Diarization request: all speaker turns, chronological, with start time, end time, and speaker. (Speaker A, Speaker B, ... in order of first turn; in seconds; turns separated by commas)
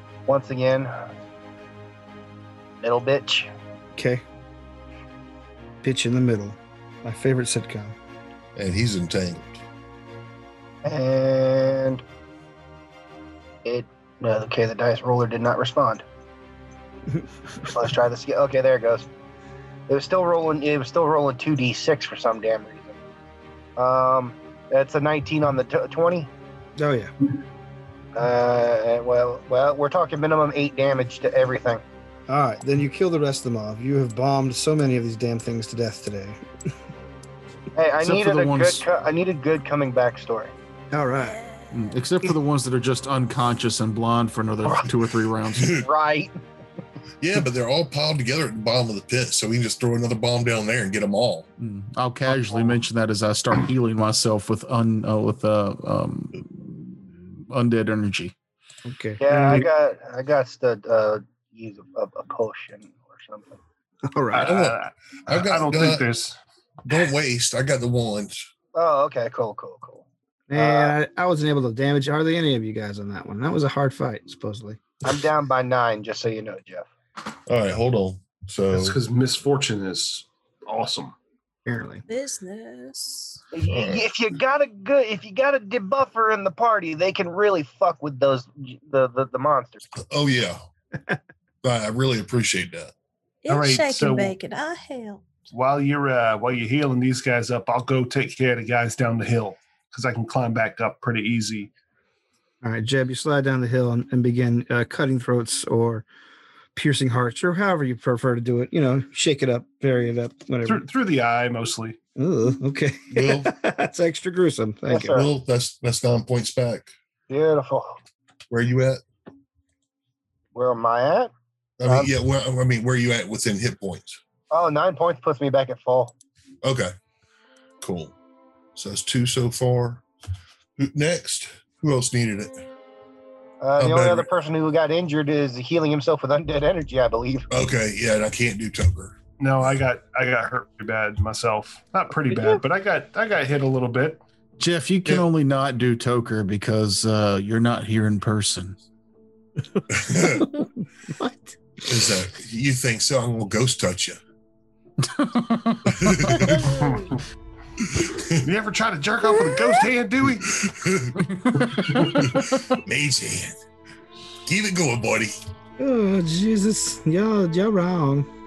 Speaker A: 0.3-0.9, Speaker A: 2.8-3.5, Speaker B: 4.0-4.2, Speaker B: 5.8-8.0, Speaker C: 8.6-9.6, Speaker A: 10.8-12.0, Speaker A: 13.6-16.0, Speaker A: 17.6-19.1, Speaker A: 19.9-23.0, Speaker A: 23.8-26.3, Speaker B: 26.8-27.1, Speaker A: 28.1-31.8, Speaker B: 32.3-36.4, Speaker A: 37.8-40.5, Speaker D: 38.0-38.8, Speaker B: 40.9-41.4, Speaker E: 41.2-41.9, Speaker D: 41.7-45.9, Speaker C: 45.6-45.9, Speaker A: 45.8-46.3, Speaker C: 47.2-51.5, Speaker D: 51.6-58.3, Speaker B: 58.9-59.7, Speaker A: 59.2-63.6, Speaker B: 64.1-64.6, Speaker F: 64.3-66.4, Speaker C: 64.4-66.1, Speaker C: 66.9-68.5, Speaker A: 68.7-70.0, Speaker B: 70.5-74.9, Speaker A: 70.5-70.9, Speaker A: 75.0-76.9, Speaker C: 77.5-79.0, Speaker F: 78.7-81.2, Speaker B: 81.7-82.0, Speaker E: 82.1-83.4, Speaker A: 83.5-89.8, Speaker C: 83.7-84.1, Speaker C: 89.9-90.6, Speaker C: 91.6-92.9, Speaker E: 93.4-95.2, Speaker F: 93.5-94.3, Speaker F: 95.5-101.7, Speaker B: 102.6-106.0, Speaker B: 106.7-110.8, Speaker F: 110.6-112.0, Speaker B: 112.2-115.1, Speaker C: 113.1-113.5, Speaker A: 114.9-115.3, Speaker C: 115.0-116.9, Speaker A: 117.3-118.0, Speaker C: 118.5-119.0, Speaker A: 120.5-121.3, Speaker C: 121.8-124.2, Speaker A: 121.8-122.1, Speaker A: 124.5-126.1, Speaker C: 126.6-126.9, Speaker C: 127.8-128.1, Speaker C: 128.7-130.0, Speaker C: 130.8-132.6, Speaker A: 133.6-137.5, Speaker C: 133.8-134.3, Speaker C: 137.5-139.2, Speaker F: 139.4-144.2, Speaker D: 144.6-148.8, Speaker C: 149.9-150.5, Speaker C: 151.8-154.2, Speaker D: 155.0-156.7, Speaker C: 155.8-157.0, Speaker F: 156.7-157.2, Speaker C: 157.9-158.4, Speaker F: 158.3-160.7, Speaker C: 160.5-163.5, Speaker D: 161.3-161.9, Speaker F: 161.7-162.2, Speaker C: 164.4-165.3, Speaker B: 165.8-168.3